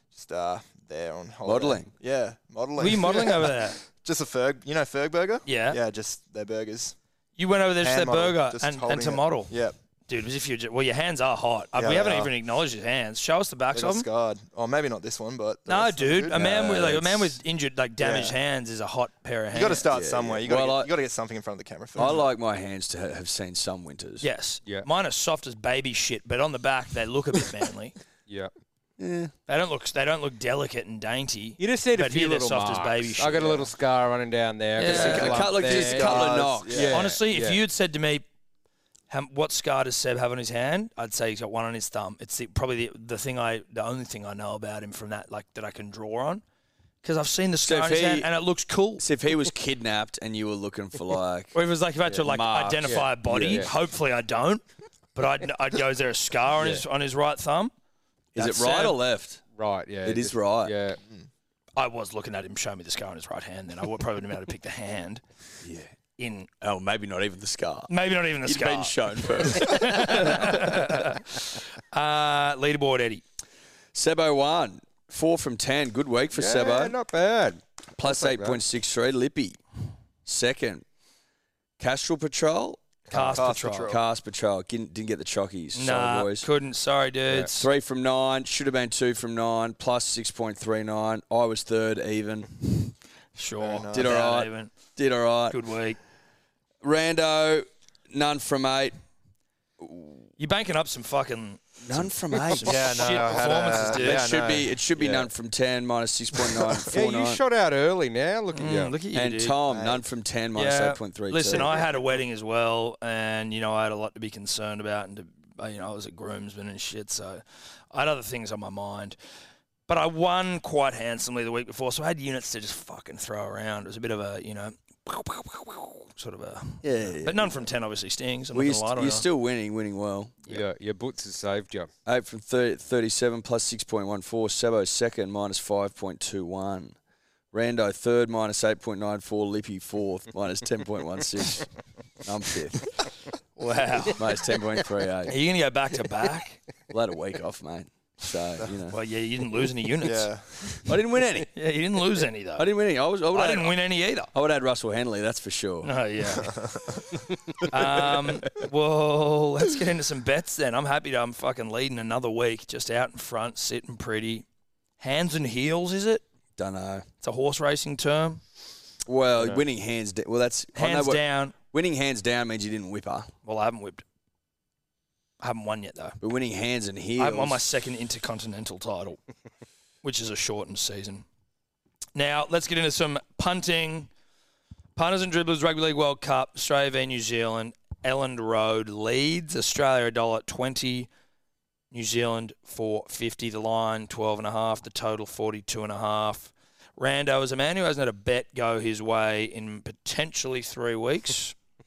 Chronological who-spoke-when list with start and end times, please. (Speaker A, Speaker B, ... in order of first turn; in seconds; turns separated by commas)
Speaker A: 0.1-7.0, Speaker B: 1.4-1.9, Speaker C: 2.8-3.8, Speaker C: 5.5-5.8, Speaker C: 7.4-9.5, Speaker A: 7.8-9.7, Speaker C: 10.1-14.1, Speaker A: 11.8-12.3, Speaker A: 13.7-16.5, Speaker C: 15.7-19.9, Speaker B: 16.3-17.4, Speaker A: 18.0-18.4, Speaker A: 19.5-22.2, Speaker B: 19.9-20.9, Speaker B: 21.9-24.2, Speaker C: 24.2-28.0, Speaker B: 29.0-29.3, Speaker C: 29.5-33.6, Speaker D: 31.6-37.6, Speaker C: 34.8-35.4, Speaker B: 34.8-37.0, Speaker A: 34.9-37.0, Speaker C: 36.9-38.2, Speaker C: 39.1-46.4, Speaker C: 47.0-49.0, Speaker B: 47.6-48.3, Speaker B: 49.0-51.5, Speaker C: 51.5-54.6, Speaker B: 52.1-53.7, Speaker D: 52.8-53.7, Speaker C: 55.1-57.7, Speaker D: 56.6-56.8, Speaker B: 58.3-59.4, Speaker C: 58.4-59.0, Speaker D: 59.5-61.0, Speaker B: 60.0-60.7, Speaker C: 61.8-65.2, Speaker B: 65.6-65.9, Speaker C: 66.2-66.5, Speaker B: 66.6-67.9, Speaker C: 67.9-73.2, Speaker B: 68.4-70.7, Speaker B: 73.9-77.0, Speaker D: 76.3-78.6, Speaker B: 78.0-79.6, Speaker B: 80.2-80.8, Speaker B: 81.8-86.5, Speaker C: 83.1-83.9, Speaker A: 83.1-84.0, Speaker C: 85.7-87.7, Speaker B: 87.5-92.9, Speaker C: 93.3-94.7, Speaker A: 93.6-94.2, Speaker B: 93.9-95.6, Speaker C: 95.5-96.0, Speaker B: 96.8-98.9, Speaker B: 99.8-100.3, Speaker C: 100.4-104.3, Speaker B: 101.8-107.4, Speaker A: 102.6-104.8, Speaker D: 105.0-105.2, Speaker D: 106.9-109.0, Speaker C: 108.5-109.6, Speaker B: 109.1-111.7, Speaker A: 109.7-110.0, Speaker C: 110.5-119.2, Speaker A: 111.5-111.9, Speaker C: 119.9-129.2, Speaker B: 126.8-127.6, Speaker B: 128.5-130.3, Speaker D: 130.5-131.9, Speaker B: 132.1-136.9, Speaker B: 137.5-141.7, Speaker B: 142.2-143.0, Speaker C: 143.6-144.4, Speaker B: 144.1-145.3, Speaker C: 145.2-146.6, Speaker B: 146.9-149.0, Speaker C: 148.9-150.3, Speaker A: 150.0-150.8, Speaker B: 150.8-151.5, Speaker C: 151.5-152.7, Speaker B: 152.6-153.8, Speaker C: 153.3-154.3, Speaker B: 154.3-155.9, Speaker C: 155.8-156.6, Speaker A: 156.4-157.0, Speaker C: 157.7-164.4, Speaker C: 165.0-166.2, Speaker B: 166.6-167.1, Speaker C: 167.2-168.4, Speaker B: 169.0-173.3, Speaker C: 170.7-171.5, Speaker C: 173.4-174.0, Speaker C: 175.4-176.2, Speaker B: 176.2-177.6, Speaker C: 177.2-179.2, Speaker C: 180.0-181.2, Speaker C: 182.1-184.1, Speaker C: 184.9-191.1, Speaker C: 191.9-201.6